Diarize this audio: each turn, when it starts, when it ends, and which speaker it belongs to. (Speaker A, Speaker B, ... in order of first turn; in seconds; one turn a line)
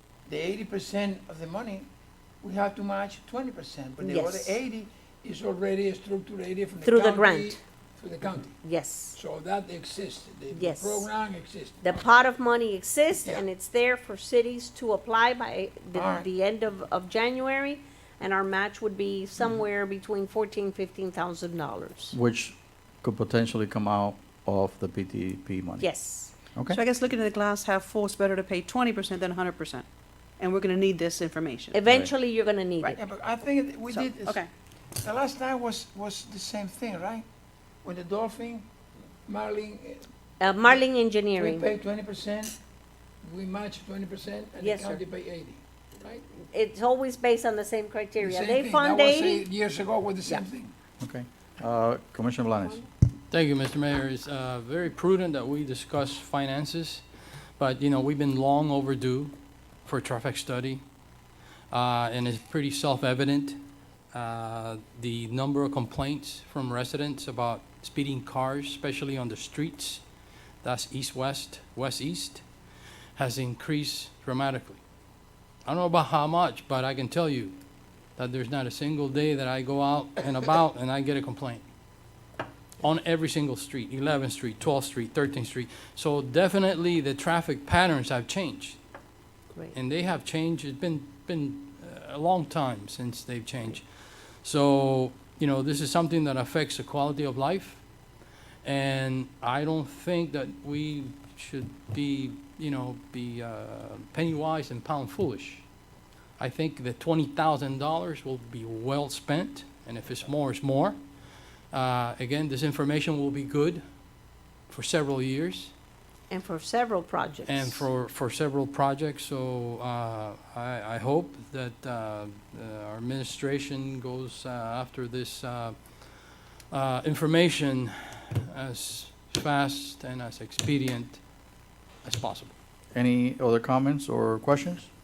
Speaker A: 0.2-1.9
Speaker A: 2.4-8.6
Speaker B: 4.0-4.5
Speaker B: 6.8-7.6
Speaker B: 8.6-9.2
Speaker A: 9.1-11.9
Speaker B: 10.5-11.1
Speaker B: 11.8-22.1
Speaker A: 15.9-16.3
Speaker C: 22.1-25.9
Speaker B: 25.8-26.3
Speaker C: 26.5-26.8
Speaker D: 26.7-29.9
Speaker D: 30.4-31.8
Speaker B: 31.7-33.0
Speaker C: 31.9-32.1
Speaker A: 33.0-37.2
Speaker D: 33.9-34.5
Speaker A: 37.8-38.7
Speaker A: 39.2-40.1
Speaker B: 40.4-41.7
Speaker A: 41.4-42.5
Speaker A: 43.2-46.2
Speaker B: 44.6-45.0
Speaker B: 46.5-49.4
Speaker A: 48.2-50.7
Speaker C: 51.0-52.8
Speaker E: 53.3-57.0
Speaker E: 57.6-59.3
Speaker E: 59.8-60.8
Speaker E: 61.7-70.0
Speaker E: 70.6-72.4
Speaker E: 73.2-74.8
Speaker E: 75.6-77.6
Speaker E: 78.2-81.6
Speaker E: 82.8-88.8
Speaker E: 89.7-97.8
Speaker E: 98.6-105.7
Speaker E: 106.4-111.0
Speaker E: 111.7-113.8
Speaker E: 114.7-115.7
Speaker B: 116.3-117.8
Speaker E: 117.5-131.2
Speaker E: 132.0-132.5
Speaker C: 132.9-134.9